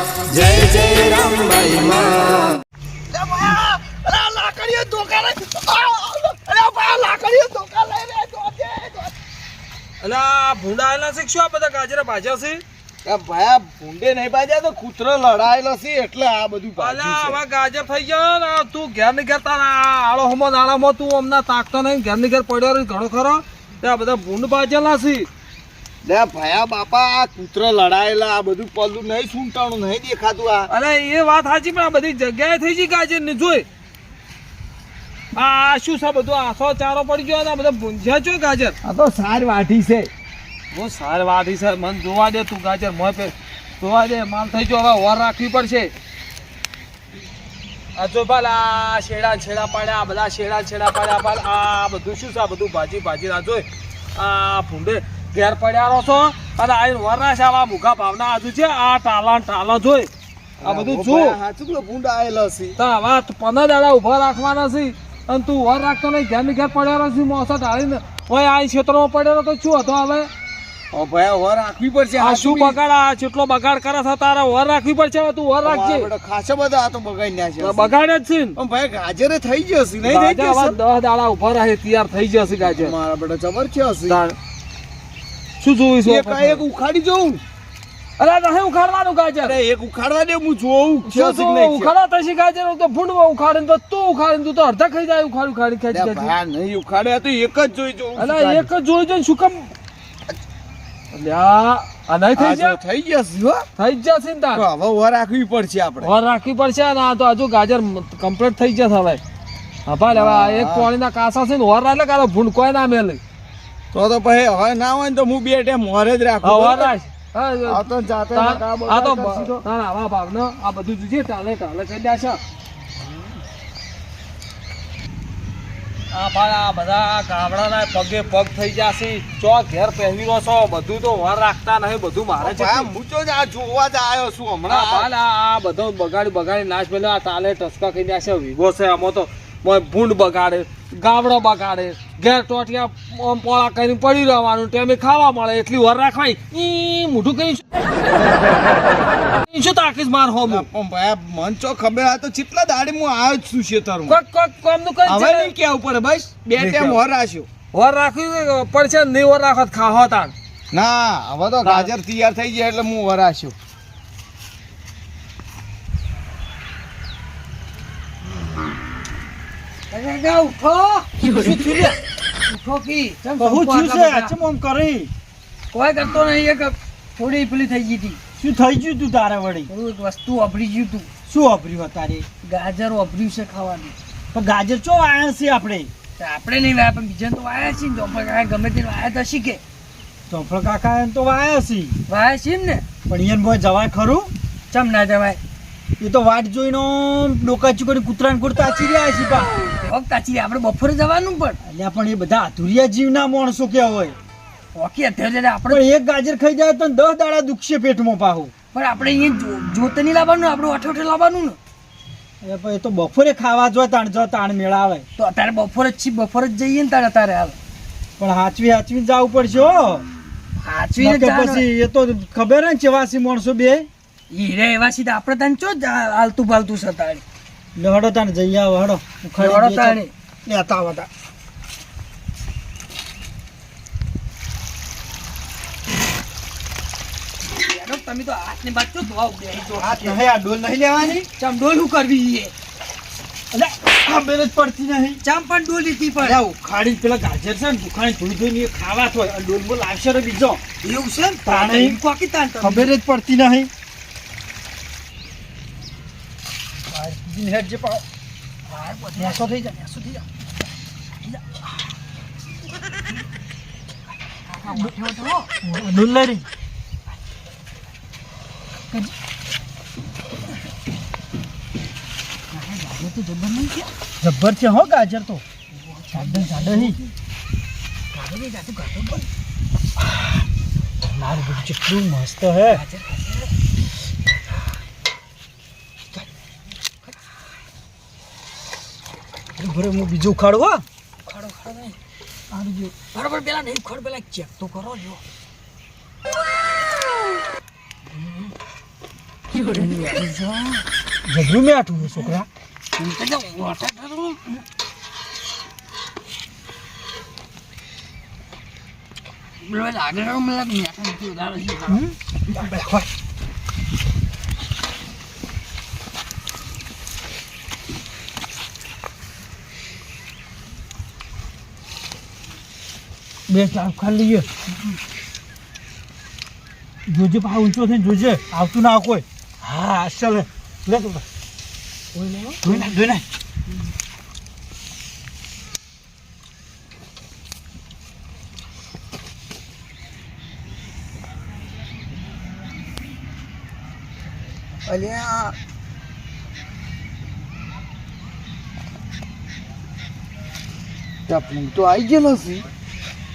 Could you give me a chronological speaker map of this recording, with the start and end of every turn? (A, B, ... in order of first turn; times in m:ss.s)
0:00.3-0:02.3 A
0:03.1-0:09.1 A
0:10.0-0:12.6 B
0:13.0-0:17.4 A
0:16.8-0:25.3 B
0:26.0-0:30.7 A
0:30.7-0:33.6 B
0:35.3-0:38.8 B
0:38.8-0:40.1 A
0:40.7-0:45.9 B
0:47.9-1:00.1 B
1:00.6-1:02.8 A
1:00.6-1:01.4 B
1:02.8-1:10.3 B
1:10.9-1:12.8 A
1:12.2-1:16.1 B
1:15.6-1:18.0 A
1:17.6-1:18.6 B
1:18.6-1:20.8 A
1:20.0-1:22.9 B
1:22.6-1:24.2 A
1:24.0-1:24.4 B
1:25.6-1:26.6 B
1:26.0-1:27.4 A
1:28.2-1:29.6 B
1:29.4-1:31.9 A
1:31.0-1:36.3 B
1:35.9-1:38.7 A
1:38.2-1:39.7 B
1:41.1-1:42.8 B
1:42.4-1:43.7 A
1:43.8-1:44.6 B
1:44.5-1:46.1 A
1:46.0-1:49.2 B
1:49.8-1:53.2 B
1:50.1-1:50.9 A
1:53.9-1:57.0 A
1:56.4-2:02.4 B
1:57.6-1:59.6 A
2:06.1-2:12.9 B
2:12.4-2:15.1 A
2:14.6-2:28.1 B
2:29.4-2:30.7 B
2:30.4-2:34.2 A
2:34.0-2:35.6 B
2:35.0-2:37.5 A
2:36.5-2:37.0 B
2:37.7-2:40.3 B
2:40.7-2:43.6 A
2:41.6-2:41.9 B
2:49.9-2:54.3 C
2:53.4-2:55.1 D
2:55.7-2:58.2 C
2:58.4-2:59.7 D
2:59.7-3:01.1 C
3:01.3-3:02.2 D
3:02.4-3:04.0 C
3:04.3-3:05.9 D
3:06.2-3:09.6 C
3:10.3-3:11.9 D
3:12.1-3:12.8 C
3:13.0-3:14.3 D
3:14.7-3:15.4 C
3:16.0-3:19.6 D
3:19.8-3:21.6 C
3:21.6-3:24.2 D
3:24.7-3:25.8 C
3:25.7-3:28.5 D
3:28.7-3:31.6 C
3:32.4-3:35.0 D
3:35.2-3:37.6 C
3:38.2-3:40.0 D
3:40.6-3:41.7 C
3:41.0-3:43.9 D
3:44.3-3:47.2 C
3:47.8-3:51.1 D
3:49.4-3:50.1 C
3:57.6-4:00.2 C
3:59.7-4:01.2 D
4:01.0-4:02.5 C
4:03.5-4:05.2 D
4:05.2-4:06.4 C
4:06.2-4:10.6 D
4:10.8-4:12.9 C
4:11.4-4:12.0 D
4:12.6-4:13.7 D
4:16.9-4:18.0 D
4:18.7-4:20.2 C
4:19.2-4:19.6 D
4:24.5-4:25.5 C
4:25.6-4:26.5 D
4:32.5-4:33.9 C
4:34.2-4:35.4 D
4:35.7-4:37.1 C
4:36.1-4:37.0 D
4:38.1-4:39.3 C
4:41.1-4:42.8 D
4:42.7-4:43.5 C
4:49.6-4:50.8 D
4:51.2-4:52.0 C
4:52.5-4:52.9 D
4:53.0-4:55.2 C
4:58.1-4:58.5 C
4:59.5-5:00.8 C
5:01.2-5:02.5 D
5:03.0-5:04.6 C
5:09.6-5:12.0 C
5:11.9-5:13.1 D
5:23.5-5:24.5 D
5:27.1-5:31.2 D
5:32.6-5:33.2 D
5:44.8-5:45.5 A
5:51.3-5:52.7 A